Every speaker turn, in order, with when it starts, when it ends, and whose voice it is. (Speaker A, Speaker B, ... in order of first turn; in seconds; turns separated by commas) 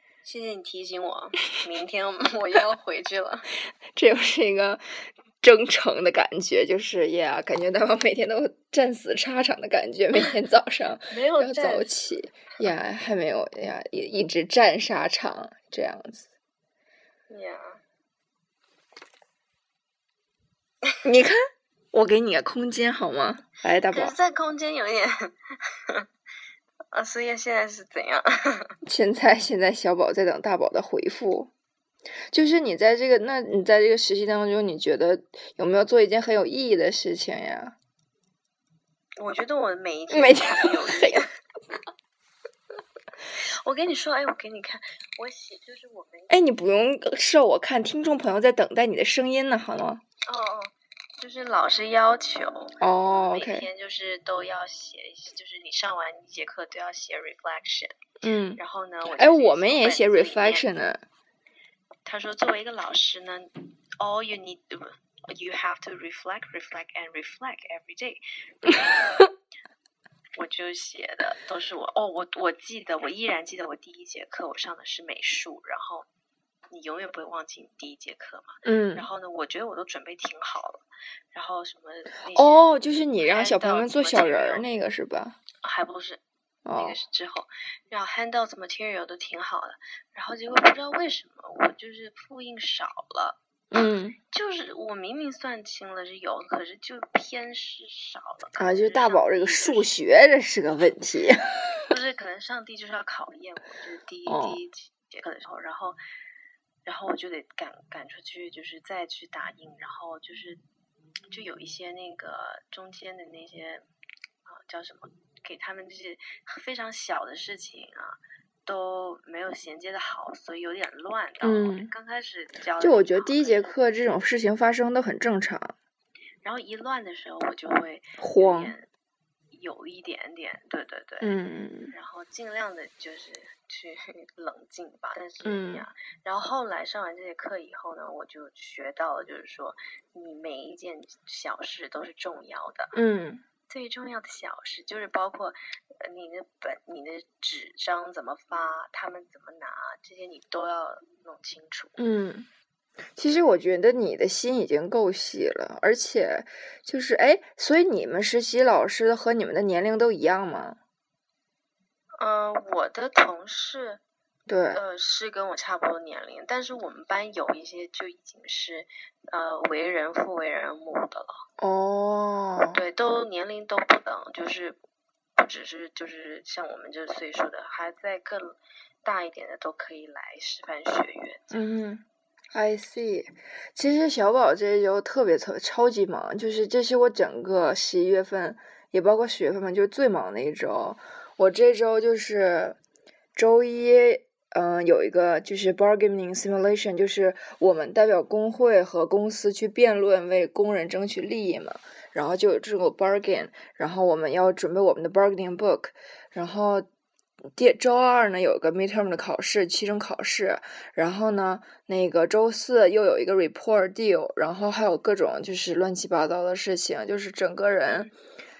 Speaker A: 0.2-3.5, Speaker B: 3.9-4.8, Speaker B: 5.4-16.2, Speaker A: 11.1-11.9, Speaker A: 17.3-17.8, Speaker B: 21.0-21.4, Speaker B: 21.9-24.1, Speaker A: 23.9-25.3, Speaker A: 26.9-28.7, Speaker B: 28.8-31.5, Speaker B: 32.3-37.7, Speaker A: 39.2-41.3, Speaker B: 40.1-41.2, Speaker A: 43.3-46.4, Speaker B: 46.3-50.0, Speaker A: 50.2-52.7, Speaker B: 52.8-53.7, Speaker A: 53.3-58.0, Speaker B: 58.2-58.6, Speaker A: 58.6-60.6, Speaker B: 59.2-61.0, Speaker A: 62.0-68.2, Speaker A: 70.3-76.1, Speaker A: 76.7-84.6, Speaker B: 78.6-79.0, Speaker B: 82.3-85.4, Speaker A: 85.6-86.2, Speaker B: 86.6-87.0, Speaker A: 86.8-93.4, Speaker B: 93.7-94.2, Speaker A: 94.3-100.0, Speaker B: 98.6-101.5, Speaker A: 101.9-106.0, Speaker B: 104.3-104.6, Speaker A: 106.8-110.6, Speaker A: 111.3-113.9, Speaker A: 114.5-123.8, Speaker B: 121.4-121.9, Speaker B: 122.8-125.7, Speaker A: 126.4-128.9, Speaker B: 128.2-128.7, Speaker A: 129.5-131.3, Speaker B: 131.2-131.9, Speaker A: 131.9-142.9, Speaker B: 135.4-135.8, Speaker B: 142.9-143.4, Speaker A: 143.7-152.0, Speaker B: 152.0-152.5, Speaker B: 153.2-160.8, Speaker A: 162.2-164.0, Speaker B: 164.5-164.8, Speaker A: 164.7-171.4, Speaker B: 171.6-172.8, Speaker A: 172.7-174.8, Speaker A: 175.4-181.6, Speaker B: 181.5-192.8, Speaker B: 193.3-206.8, Speaker B: 207.5-218.1